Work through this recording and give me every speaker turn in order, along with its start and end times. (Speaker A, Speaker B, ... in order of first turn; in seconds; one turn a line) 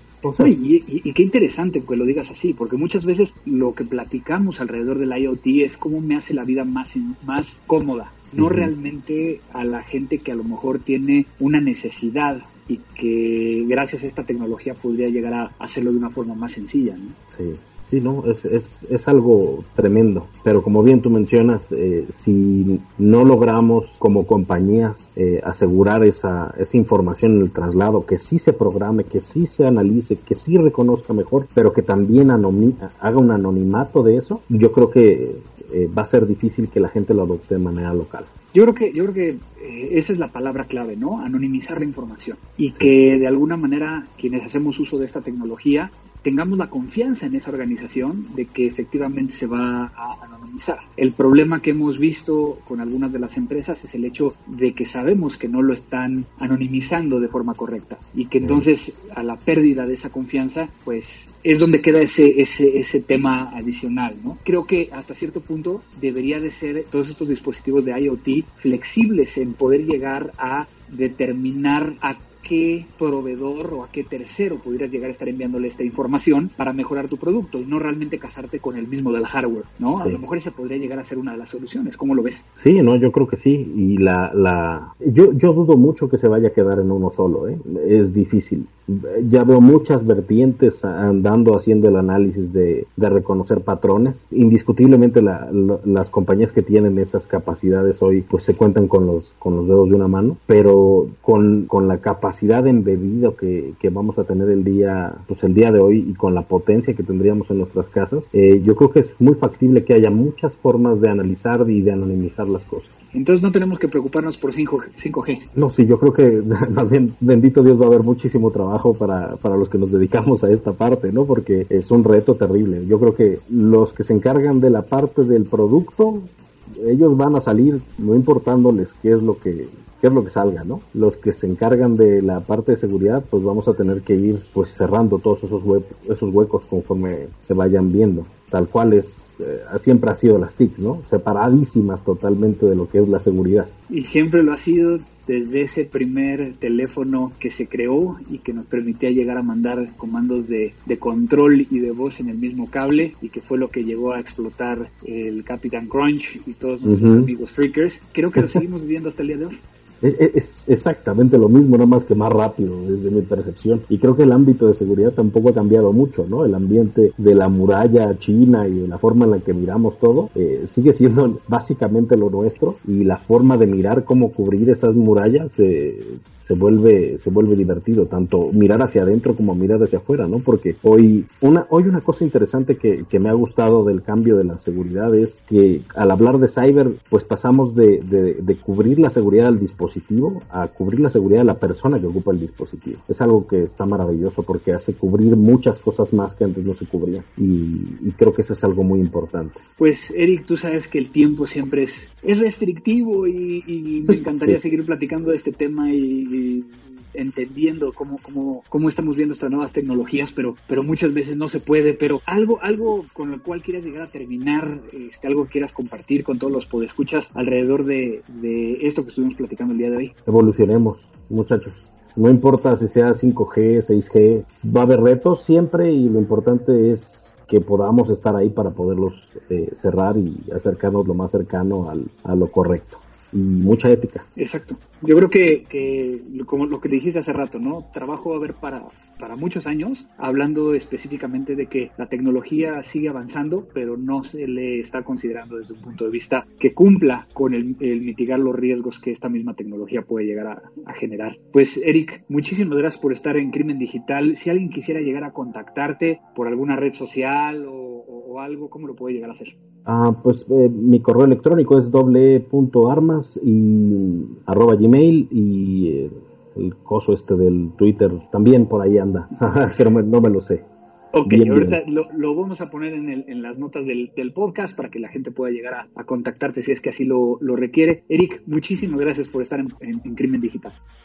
Speaker A: 0.2-0.7
Speaker B: 0.4-17.2
Speaker A: 8.4-8.7
Speaker A: 17.3-38.3
Speaker B: 38.5-82.4
Speaker A: 82.6-113.0
Speaker B: 113.1-115.5
Speaker A: 115.5-143.7
Speaker B: 143.9-159.6
Speaker A: 156.8-157.3
Speaker A: 160.0-199.6
Speaker B: 199.8-220.1
Speaker A: 204.1-204.6
Speaker A: 220.3-234.2
Speaker B: 234.4-259.5
Speaker A: 259.9-270.6
Speaker B: 271.1-280.8
Speaker A: 271.2-271.8